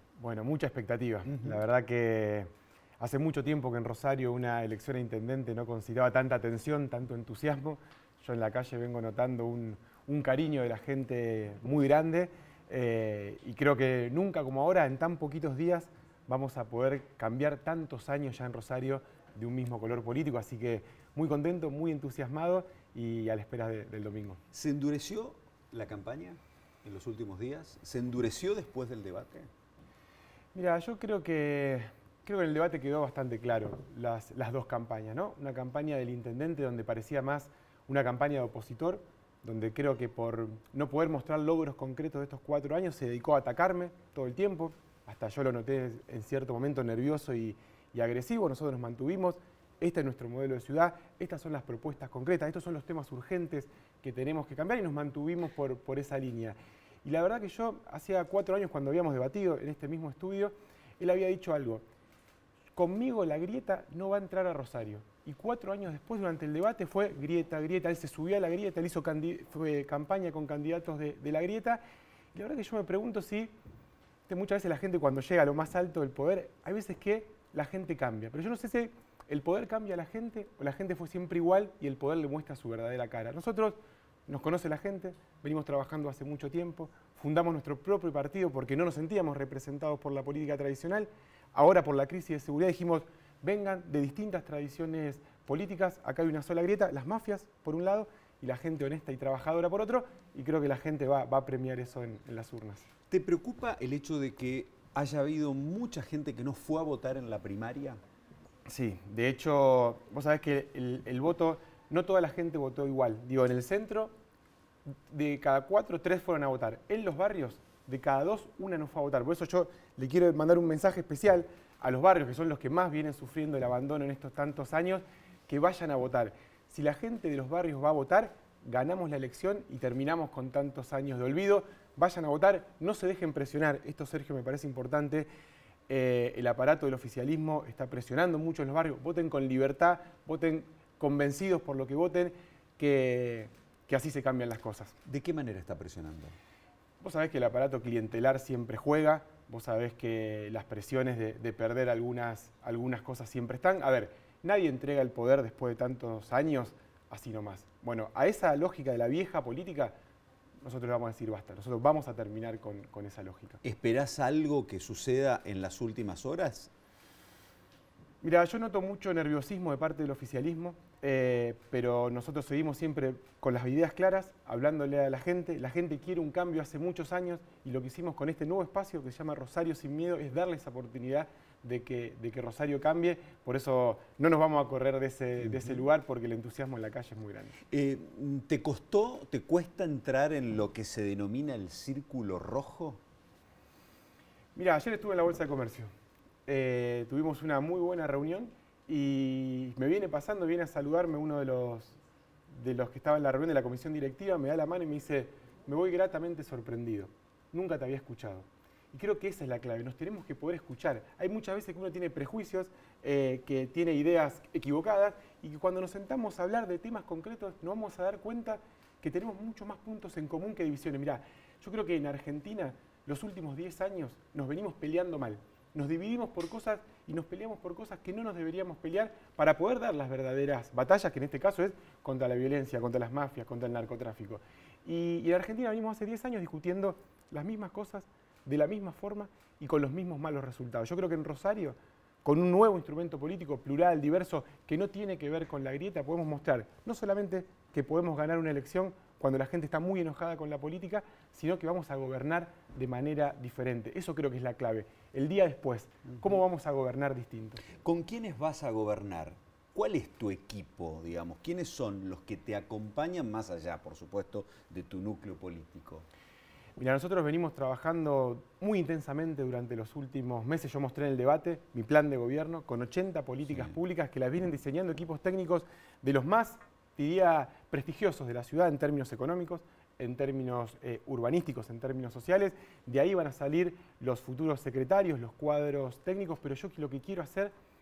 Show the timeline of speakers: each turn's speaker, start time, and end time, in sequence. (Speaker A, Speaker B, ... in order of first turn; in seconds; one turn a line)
Speaker A: 0.2-24.4
Speaker B: 24.5-29.5
Speaker A: 30.5-61.8
Speaker A: 62.8-71.8
Speaker A: 72.3-73.5
Speaker A: 74.3-102.9
Speaker B: 103.1-108.0
Speaker A: 108.7-114.1
Speaker A: 115.1-135.3
Speaker A: 135.9-145.0
Speaker B: 145.1-146.4
Speaker A: 147.0-159.9
Speaker A: 160.6-163.6
Speaker B: 163.6-166.7
Speaker A: 168.2-187.6
Speaker B: 187.7-193.0
Speaker A: 194.6-195.9
Speaker A: 196.5-202.0
Speaker A: 202.5-257.6
Speaker B: 257.8-266.1
Speaker A: 266.8-287.5